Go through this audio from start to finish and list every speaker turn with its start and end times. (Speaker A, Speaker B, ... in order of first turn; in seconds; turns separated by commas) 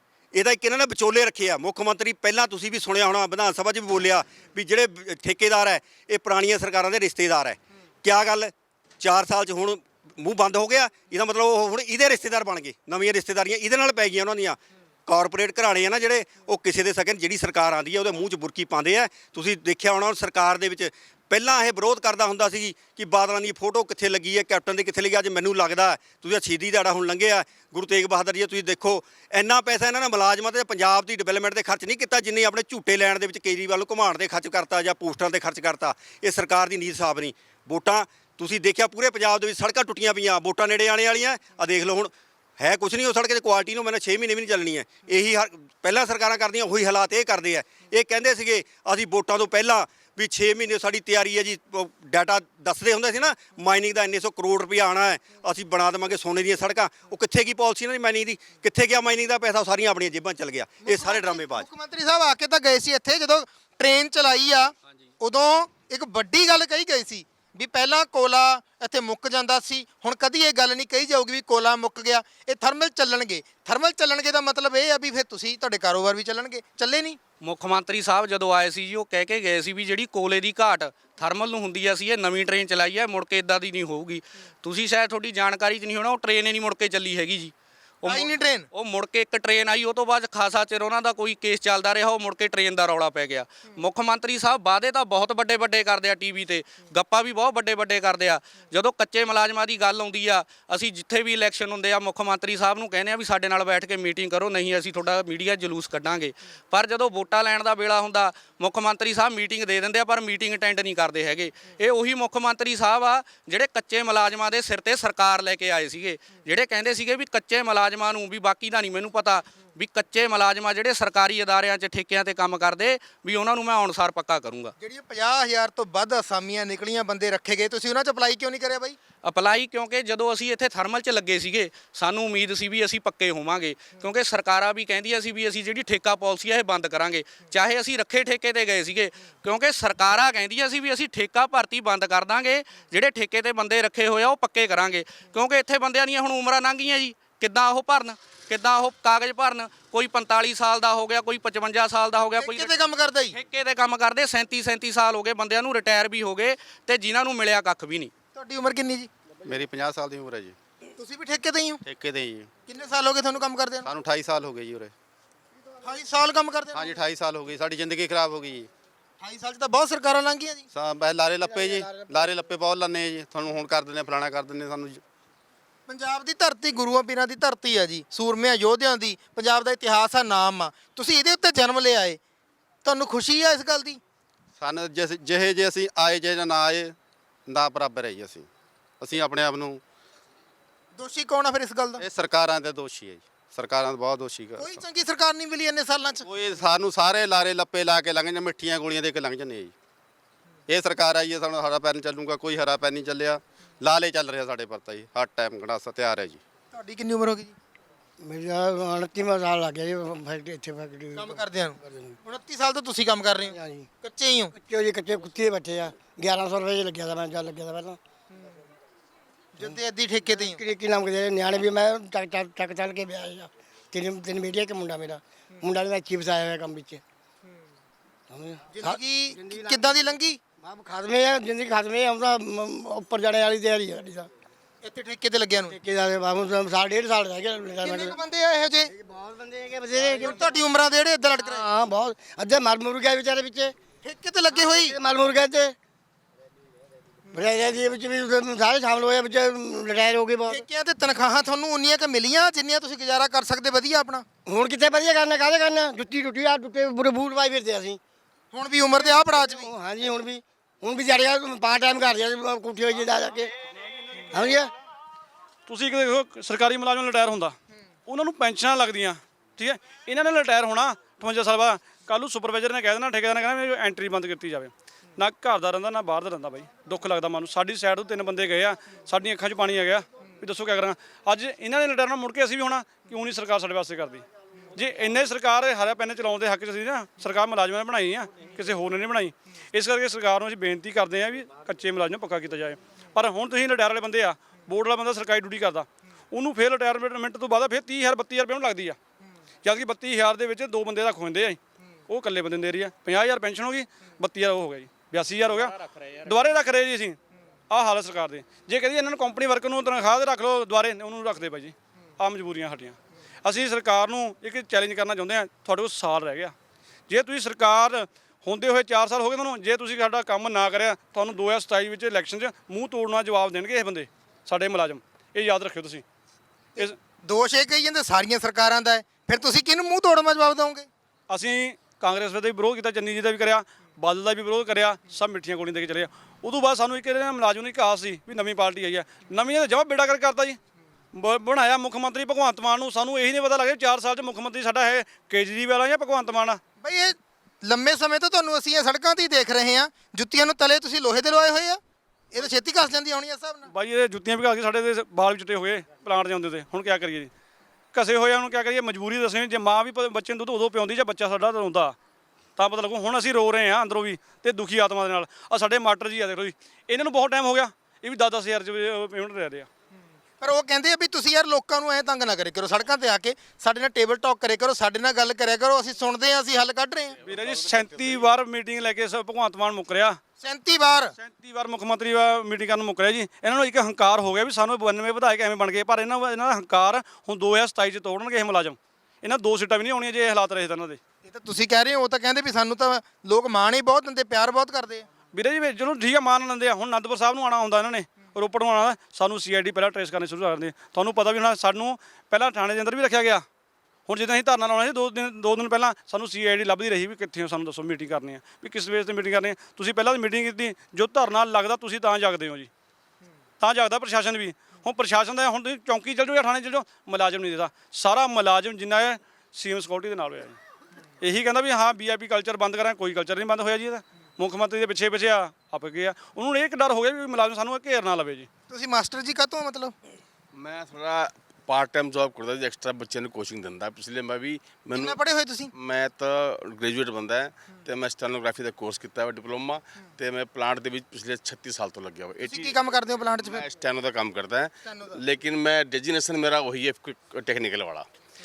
Speaker A: 0.3-61.7, Speaker B: 60.8-77.2, Speaker C: 77.4-124.7, Speaker B: 88.0-88.7, Speaker B: 124.8-129.0, Speaker C: 129.2-152.7, Speaker B: 152.4-153.3, Speaker C: 153.3-158.1, Speaker B: 158.3-159.1, Speaker D: 159.4-160.5, Speaker B: 161.0-161.8, Speaker D: 161.8-162.5, Speaker B: 162.7-163.9, Speaker D: 163.8-164.9, Speaker B: 165.8-166.9, Speaker D: 166.7-168.7, Speaker B: 169.2-170.7, Speaker D: 170.7-175.0, Speaker E: 171.5-172.1, Speaker B: 175.9-182.2, Speaker B: 182.8-184.0, Speaker D: 184.6-186.9, Speaker D: 187.5-188.5, Speaker D: 189.0-189.8, Speaker B: 190.9-192.0, Speaker D: 192.0-194.8, Speaker B: 194.6-196.2, Speaker D: 196.2-199.7, Speaker D: 200.7-206.4, Speaker B: 206.7-207.5, Speaker E: 208.2-212.2, Speaker B: 211.2-214.5, Speaker E: 213.5-213.9, Speaker E: 214.5-218.0, Speaker B: 219.6-220.6, Speaker E: 219.6-227.0, Speaker E: 228.3-230.1, Speaker B: 228.8-230.4, Speaker E: 230.6-234.3, Speaker B: 234.8-235.8, Speaker E: 235.7-238.2, Speaker B: 237.8-238.9, Speaker E: 238.9-240.5, Speaker B: 240.0-241.6, Speaker E: 241.3-243.7, Speaker B: 244.0-245.0, Speaker E: 244.6-245.8, Speaker E: 247.3-250.6, Speaker B: 250.5-254.2, Speaker E: 254.4-258.0, Speaker B: 258.5-259.7, Speaker E: 259.1-263.5, Speaker E: 264.3-264.7, Speaker F: 265.7-267.5, Speaker F: 268.1-299.0, Speaker F: 299.6-307.2, Speaker F: 307.7-316.5, Speaker F: 317.1-326.0, Speaker B: 326.8-330.9, Speaker F: 331.3-340.6, Speaker F: 341.1-346.6, Speaker B: 346.8-351.8, Speaker B: 352.3-353.7, Speaker F: 353.7-357.3, Speaker F: 357.9-361.9, Speaker F: 362.6-369.7, Speaker B: 370.4-377.2, Speaker G: 377.2-378.3, Speaker F: 377.2-380.2, Speaker B: 380.4-381.1, Speaker F: 381.2-391.0, Speaker B: 391.2-395.1, Speaker F: 395.3-403.4, Speaker F: 404.1-412.7, Speaker F: 413.6-420.6, Speaker F: 421.2-428.5, Speaker B: 428.7-429.9, Speaker G: 430.5-435.2, Speaker B: 434.9-435.7, Speaker G: 435.7-442.8, Speaker B: 442.4-443.6, Speaker G: 443.4-448.1, Speaker B: 444.9-445.1